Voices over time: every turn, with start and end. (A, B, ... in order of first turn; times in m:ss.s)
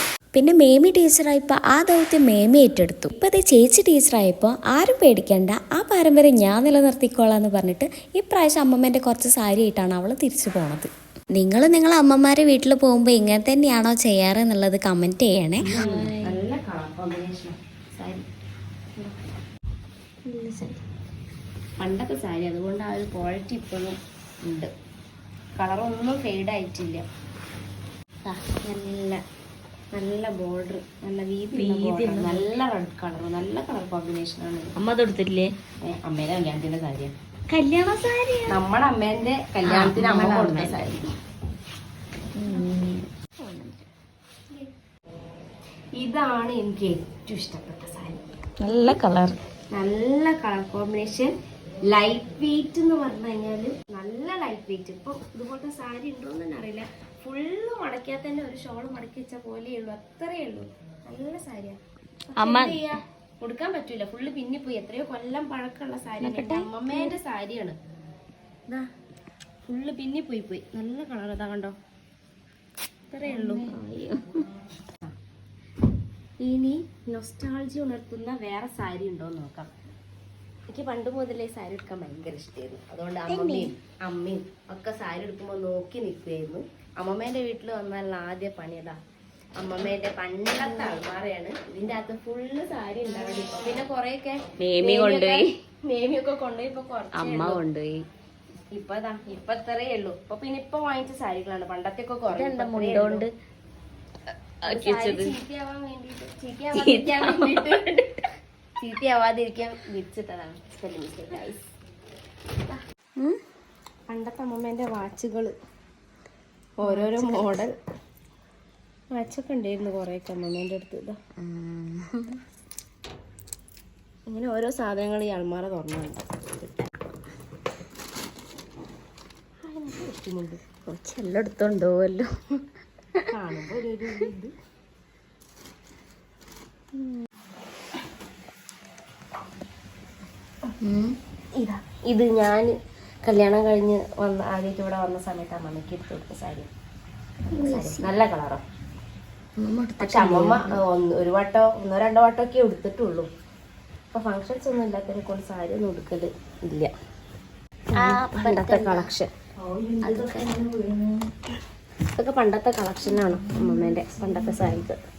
0:00.3-0:16.2 A
0:15.6-0:18.2 B
0:20.4-0:20.7 B
0:21.8-0:24.7 B
0:25.6-0:27.0 B
0:28.2-0:29.2 B
0:29.9-0:34.8 B
0:31.6-0:32.2 C
0:31.6-0:32.3 A
0:34.8-0:35.4 C
0:35.1-0:35.5 A
0:35.8-0:37.1 B
0:37.5-0:38.5 A
0:38.5-0:41.0 B
0:39.7-0:41.0 A
0:39.9-0:40.8 C
0:42.4-0:43.8 A
0:46.0-0:48.2 B
0:48.6-0:49.3 A
0:48.7-0:49.3 C
0:49.7-0:51.3 B
0:51.8-1:01.8 B
1:02.3-1:07.8 B
1:02.4-1:02.8 A
1:06.2-1:07.1 A
1:09.7-1:11.7 B
1:13.1-1:13.7 B
1:13.3-1:14.2 A
1:16.4-1:19.7 B
1:20.7-1:29.0 B
1:23.3-1:23.7 A
1:29.6-1:37.6 B
1:34.7-1:35.4 A
1:34.8-1:35.3 C
1:37.1-1:38.0 A
1:38.7-1:43.3 B
1:42.3-1:43.3 A
1:44.6-1:45.3 A
1:44.7-1:47.9 B
1:46.7-1:48.1 A
1:48.8-1:51.7 B
1:54.1-1:55.5 B
1:56.8-1:57.7 B
1:56.9-1:57.4 A
1:59.1-2:01.2 B
2:01.4-2:02.3 A
2:04.3-2:06.8 B
2:09.6-2:10.7 B
2:10.9-2:12.3 A
2:13.3-2:14.5 B
2:20.8-2:21.1 A
2:21.6-2:22.7 B
2:23.2-2:26.7 B
2:27.5-2:28.6 B
2:27.5-2:28.1 A
2:29.6-2:30.8 A
2:30.0-2:33.3 B
2:34.1-2:36.9 B
2:37.9-2:39.3 B
2:38.0-2:39.0 A
2:38.2-2:38.5 C
2:40.0-2:41.1 A
2:40.0-2:40.9 C
2:42.1-2:45.0 B